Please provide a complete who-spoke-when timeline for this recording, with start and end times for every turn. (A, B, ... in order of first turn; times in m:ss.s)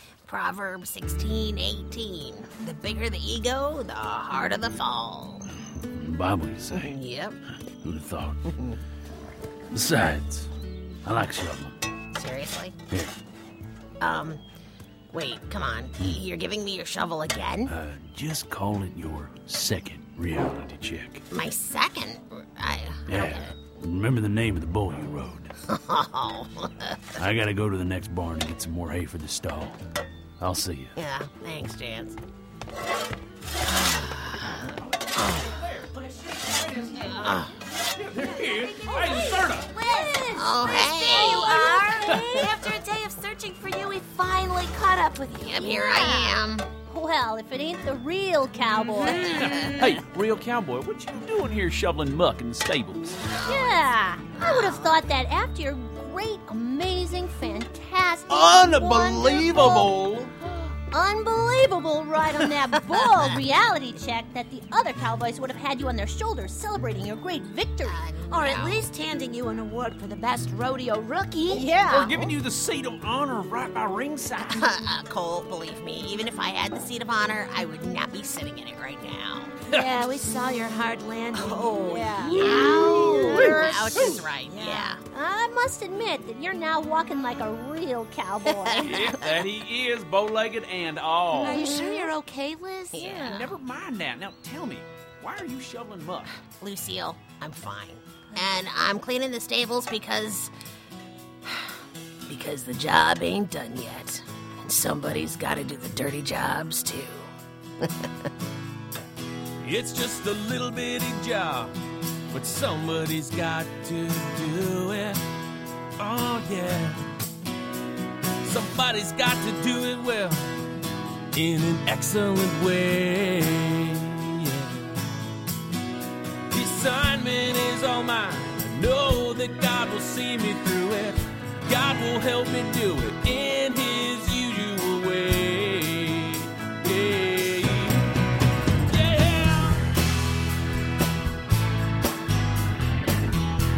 0:00.2-0:05.5 A
0:05.5-0:07.0 B
0:06.7-0:07.4 A
0:07.7-0:08.5 B
0:08.5-0:08.8 A
0:09.7-0:10.5 B
0:11.0-0:11.8 B
0:12.1-0:12.8 A
0:14.0-0:14.4 A
0:15.1-0:17.7 A
0:17.7-0:21.3 B
0:21.3-0:23.5 A
0:23.1-0:25.6 B
0:25.7-0:27.1 A
0:27.2-0:29.8 B
0:30.4-0:31.0 B
0:31.0-0:32.2 A
0:33.7-0:35.5 A
0:35.4-0:39.7 C
0:37.1-0:37.6 A
0:38.8-0:42.5 D
0:40.3-0:41.7 A
0:40.8-0:46.1 E
0:42.1-0:42.5 C
0:45.4-0:46.7 A
0:45.6-0:46.4 D
0:46.9-0:49.6 D
0:49.0-0:49.7 A
0:49.1-0:49.7 E
0:49.2-0:53.2 C
0:53.3-0:53.8 A
0:53.4-0:59.9 D
0:54.3-0:55.0 A
0:58.3-1:00.4 C
1:00.9-1:08.0 D
1:07.8-1:08.8 A
1:08.3-1:11.6 E
1:11.5-1:12.2 D
1:11.8-1:14.6 C
1:14.5-1:19.6 A
1:19.7-1:25.0 E
1:21.3-1:25.0 A
1:21.8-1:24.2 D
1:25.1-1:29.1 D
1:28.5-1:29.4 A
1:28.8-1:31.7 C
1:31.3-1:33.5 E
1:31.6-1:32.1 D
1:32.9-1:33.4 A
1:33.2-1:36.3 C
1:36.6-1:40.5 A
1:41.4-1:41.7 A
1:42.3-1:48.1 A
1:49.6-1:51.8 F
1:52.3-1:55.2 F
1:56.0-1:57.0 F
1:58.4-2:00.6 F
2:01.3-2:04.9 F
2:06.5-2:18.1 F
2:18.8-2:19.9 F